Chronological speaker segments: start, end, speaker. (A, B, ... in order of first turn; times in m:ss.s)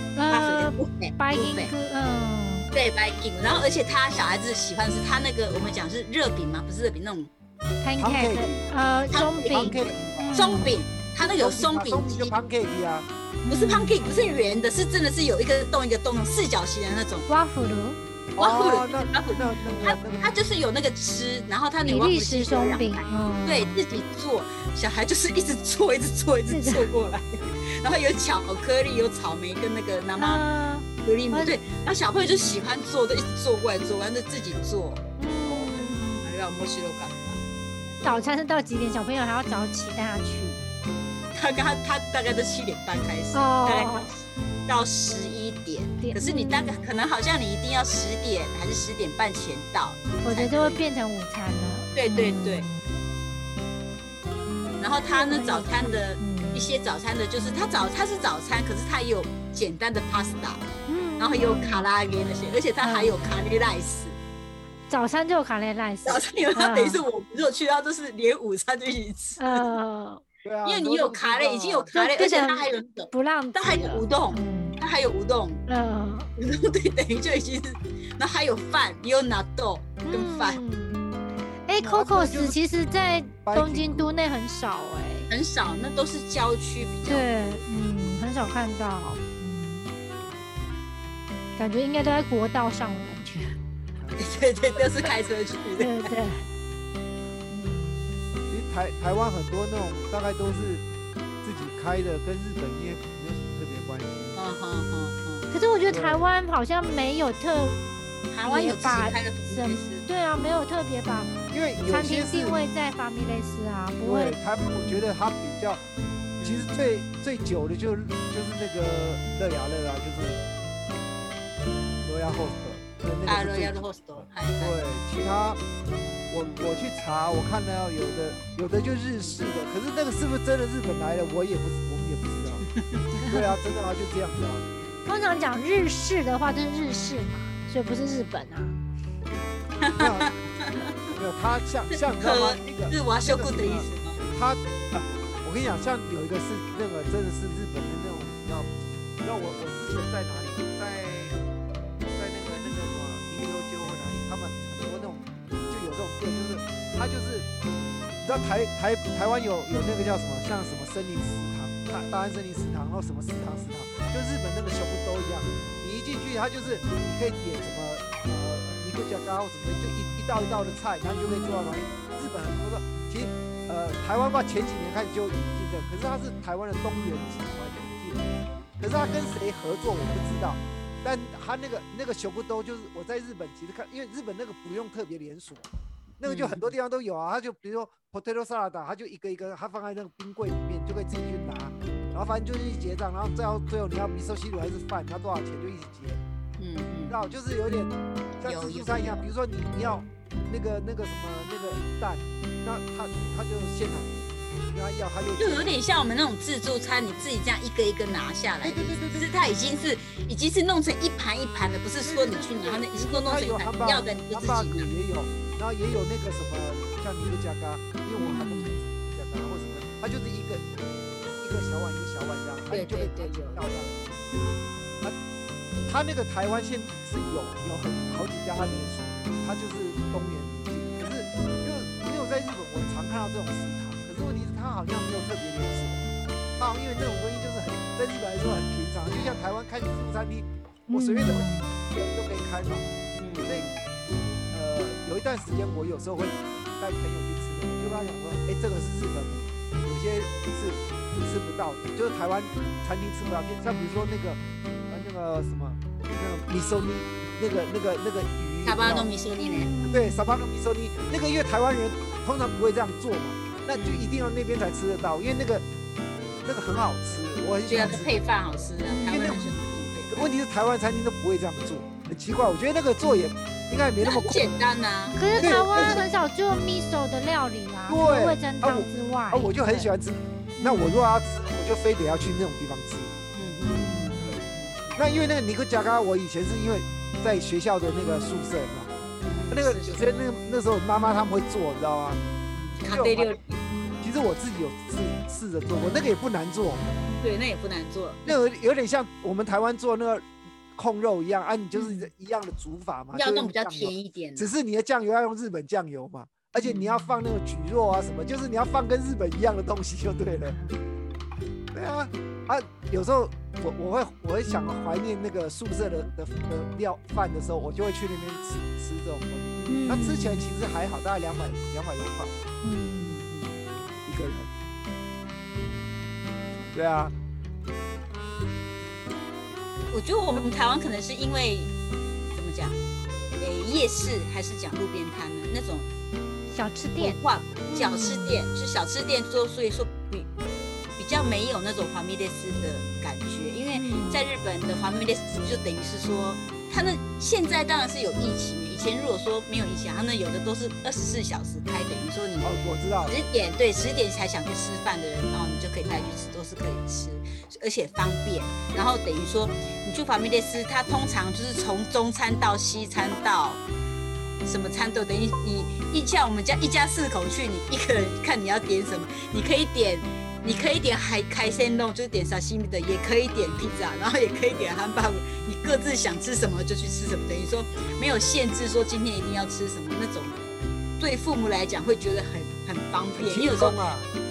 0:00.2-0:02.7 A
0:00.3-0:01.7 B
0:02.7-0:07.3 B
0:03.5-0:03.9 C
0:07.8-0:10.7 A
0:08.0-0:08.6 C
0:09.1-0:12.4 B
0:09.5-0:13.1 C
0:13.4-0:14.0 A
0:13.5-0:17.3 B
0:17.3-0:18.0 A
0:18.4-0:20.4 C
0:18.4-0:30.4 B
0:19.3-0:19.9 A
0:21.8-0:23.8 A
0:26.5-0:26.9 A
0:30.2-0:31.6 A
0:31.0-0:35.0 B
0:32.2-0:32.6 A
0:35.2-0:36.2 A
0:35.4-0:35.9 C
0:36.2-0:37.4 B
0:38.0-0:40.6 A
0:41.3-0:50.8 B
0:43.3-0:44.1 A
0:46.0-0:46.8 A
0:50.2-0:52.8 A
0:52.0-0:52.7 B
0:54.8-1:00.6 B
0:55.1-0:56.7 A
1:00.9-1:01.9 A
1:01.2-1:04.2 B
1:02.8-1:03.1 A
1:04.9-1:07.0 A
1:06.1-1:09.7 B
1:09.4-1:10.2 A
1:10.4-1:11.9 C
1:10.7-1:15.7 B
1:11.9-1:14.8 A
1:15.7-1:16.3 A
1:16.4-1:20.6 B
1:20.0-1:21.0 A
1:21.7-1:25.3 A
1:21.8-1:22.6 C
1:23.4-1:24.1 C
1:25.3-1:27.6 B
1:27.1-1:29.9 A
1:31.6-1:33.5 A
1:34.0-1:34.2 C
1:34.2-1:36.1 B
1:35.8-1:36.5 A
1:37.5-1:38.1 A
1:38.5-1:40.8 C
1:41.4-1:44.4 C
1:44.4-1:45.5 B
1:45.5-1:47.8 A
1:45.9-1:46.2 C
1:48.3-1:50.1 B
1:48.4-1:51.4 A
1:51.5-1:52.6 C
1:51.9-1:54.4 A
1:54.0-1:55.8 C
1:56.4-1:56.7 B
1:56.4-2:00.4 C
2:02.0-2:05.6 C
2:03.2-2:04.8 B
2:06.3-2:12.7 C
2:06.4-2:06.7 B
2:12.6-2:13.2 B
2:13.3-2:14.6 C
2:15.0-2:18.8 A
2:19.8-2:21.1 B
2:20.0-2:20.3 C
2:21.1-2:28.7 C
2:22.2-2:24.2 B
2:29.2-2:31.4 C
2:32.1-2:37.5 C
2:38.2-2:58.2 C
2:58.8-3:05.7 C
3:06.2-3:16.2 C
3:06.2-3:06.7 B
3:16.6-3:17.4 B
3:17.1-3:24.2 C
3:18.4-3:19.3 B
3:24.7-3:25.8 C
3:25.4-3:34.9 B
3:28.6-3:29.3 C
3:32.0-3:40.6 C
3:38.2-3:38.8 A
3:41.4-3:43.9 C
3:42.7-3:43.6 B
3:45.9-4:03.7 C
4:00.9-4:01.7 A
4:03.2-4:03.8 B
4:04.5-4:19.1 C
4:18.6-4:19.8 B
4:19.4-4:20.3 A
4:19.9-4:25.6 C
4:23.8-4:24.2 B
4:26.4-4:28.1 C
4:27.7-4:30.3 B
4:28.9-4:29.6 A
4:29.1-4:29.5 C
4:30.1-4:34.4 C
4:34.0-4:36.0 B
4:35.2-4:39.6 A
4:35.4-4:36.0 C
4:37.9-4:43.1 C
4:40.6-4:41.2 A
4:43.3-4:45.0 B
4:43.6-4:44.3 A
4:45.0-4:48.9 C
4:49.2-4:50.3 B
4:49.5-4:52.2 C
4:52.5-4:53.6 B
4:52.9-4:53.4 C
4:54.0-4:56.8 C
4:57.2-4:58.2 B
4:58.3-5:10.6 C
5:01.7-5:02.1 A
5:03.1-5:04.5 B
5:10.5-5:10.7 A
5:11.7-5:22.3 C
5:19.6-5:19.9 B
5:19.7-5:20.5 A
5:22.6-5:23.2 A
5:23.0-5:23.6 B
5:24.0-5:24.5 C
5:26.7-5:27.1 C
5:29.9-5:31.7 B
5:32.3-5:32.8 B
5:33.4-5:35.9 B
5:36.5-5:37.2 A
5:37.0-5:40.3 B
5:37.7-5:38.4 A
5:41.0-6:03.6 B
5:43.7-5:44.2 A
5:52.4-5:53.2 C
6:04.4-6:20.5 B
6:14.5-6:14.8 C
6:21.0-6:23.8 B
6:23.2-6:24.1 C